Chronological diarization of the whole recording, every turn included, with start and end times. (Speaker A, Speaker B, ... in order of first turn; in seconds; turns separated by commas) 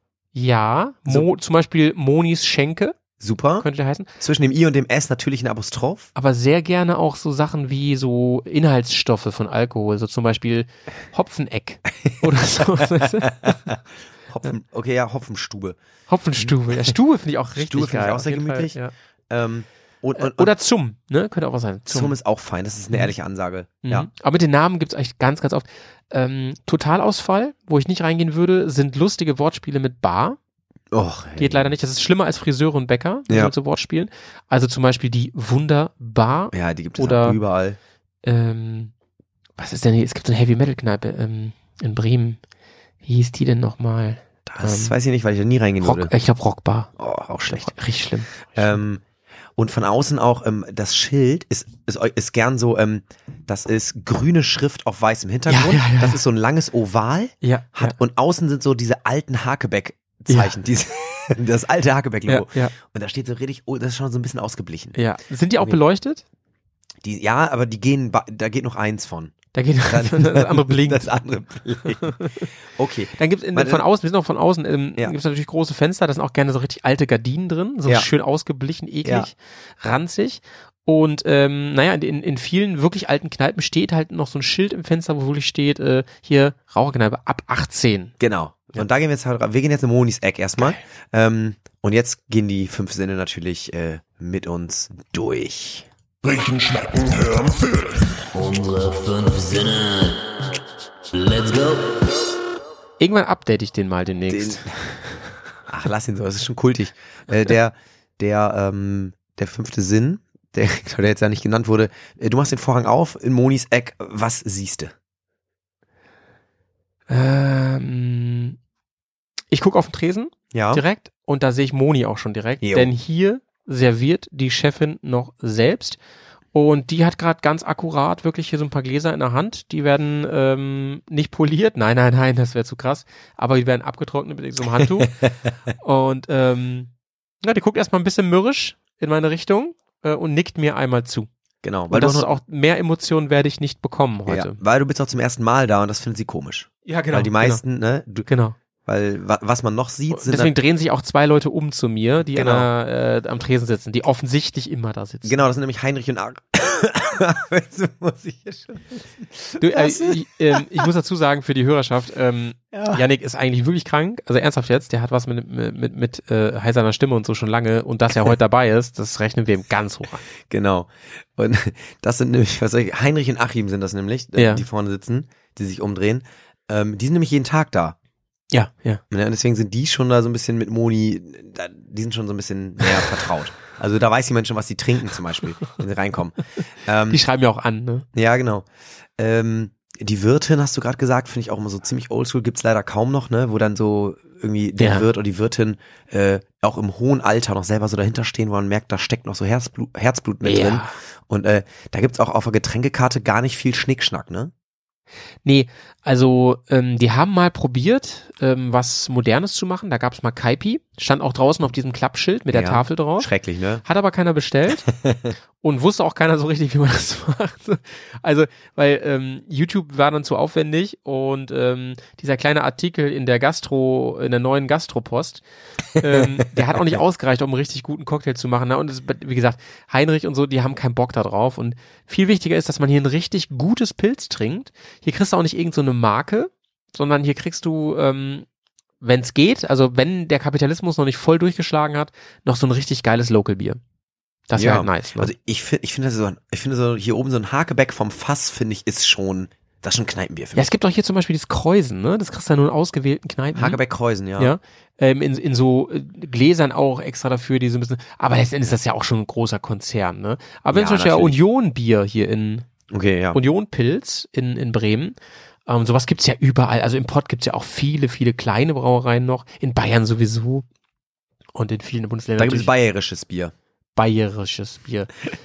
Speaker A: 0.3-3.0, Speaker B: 3.2-3.7, Speaker A: 3.6-4.1, Speaker B: 4.2-6.1, Speaker A: 6.2-13.7, Speaker B: 12.9-15.8, Speaker A: 16.1-18.9, Speaker B: 16.4-17.0, Speaker B: 17.6-18.8, Speaker B: 19.3-20.5, Speaker A: 20.2-22.1, Speaker B: 21.9-24.1, Speaker A: 23.8-30.4, Speaker B: 30.9-31.7, Speaker A: 31.4-37.4, Speaker B: 36.5-37.8, Speaker A: 38.2-38.9, Speaker A: 39.6-42.4, Speaker A: 43.0-45.0, Speaker B: 44.5-46.1, Speaker A: 45.8-46.9, Speaker B: 47.0-47.8, Speaker A: 47.5-48.8, Speaker B: 48.5-49.0, Speaker B: 49.6-65.0, Speaker A: 55.5-56.2, Speaker A: 57.4-58.0, Speaker A: 60.3-60.5, Speaker A: 62.3-62.7, Speaker A: 65.0-66.2, Speaker B: 67.0-69.4, Speaker A: 69.5-71.1, Speaker B: 69.9-72.2, Speaker A: 72.0-72.5, Speaker B: 72.7-73.8, Speaker A: 73.2-88.2, Speaker B: 79.0-79.3, Speaker B: 88.2-95.9, Speaker C: 96.2-98.2, Speaker D: 98.3-100.3, Speaker D: 101.1-102.0, Speaker A: 103.0-105.0, Speaker B: 104.3-104.7, Speaker B: 105.7-114.9, Speaker A: 117.1-118.6, Speaker A: 119.5-126.0, Speaker B: 120.5-120.8, Speaker B: 122.6-122.9, Speaker A: 126.5-135.1, Speaker B: 134.8-135.3, Speaker A: 135.8-136.9, Speaker A: 137.4-141.3, Speaker B: 141.6-142.3, Speaker A: 141.9-144.6, Speaker B: 144.3-148.3, Speaker A: 146.9-147.6, Speaker A: 148.3-148.6, Speaker B: 148.8-150.5, Speaker A: 150.1-155.4, Speaker B: 152.3-152.7, Speaker B: 155.2-160.6, Speaker A: 159.6-170.2, Speaker B: 162.7-163.0, Speaker B: 170.5-178.0, Speaker A: 174.4-174.6, Speaker A: 178.5-179.0, Speaker B: 179.1-187.2, Speaker A: 187.1-188.1, Speaker B: 188.2-188.7, Speaker B: 189.2-204.5, Speaker A: 194.8-195.1, Speaker A: 200.4-200.9, Speaker A: 205.4-213.3, Speaker B: 212.5-213.8, Speaker A: 213.8-214.9, Speaker B: 214.8-215.3, Speaker A: 215.6-225.4, Speaker A: 226.0-238.5, Speaker B: 226.0-226.4, Speaker A: 239.0-243.8, Speaker A: 244.5-245.3, Speaker B: 244.6-250.7, Speaker A: 250.6-253.8, Speaker B: 253.6-254.6, Speaker A: 254.4-262.7, Speaker B: 260.7-261.4, Speaker B: 262.9-263.4, Speaker A: 263.3-265.1, Speaker A: 265.7-270.6, Speaker A: 271.6-272.7, Speaker B: 272.4-273.5, Speaker A: 274.0-275.1